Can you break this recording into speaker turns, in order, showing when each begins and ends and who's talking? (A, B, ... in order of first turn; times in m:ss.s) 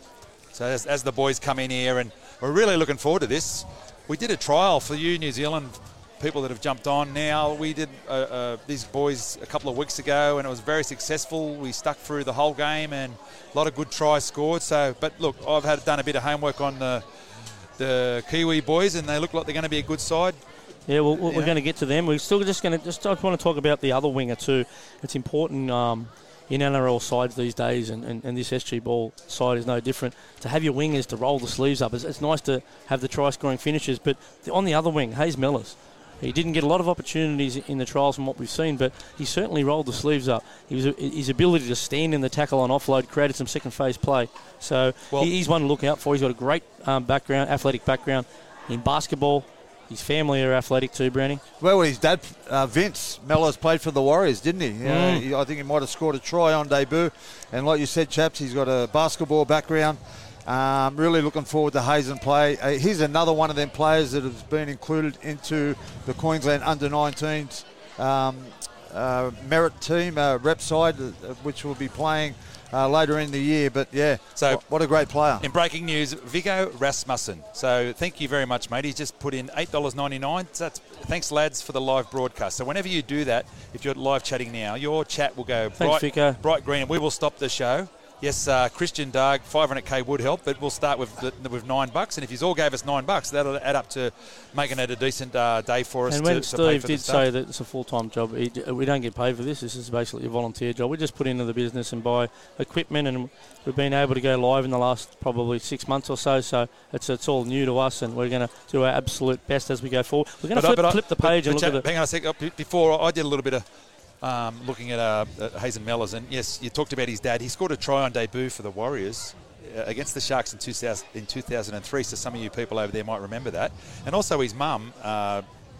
0:00.5-0:17.0 A
0:17.8-0:20.4 A
0:20.9-0:51.4 B
0:21.2-0:21.5 A
0:51.6-1:15.4 C
0:54.8-0:55.2 B
1:14.4-1:14.6 A
1:15.4-1:37.2 A
1:25.8-1:26.4 B
1:36.1-1:51.8 B
1:50.5-1:53.6 A
1:54.2-2:05.4 A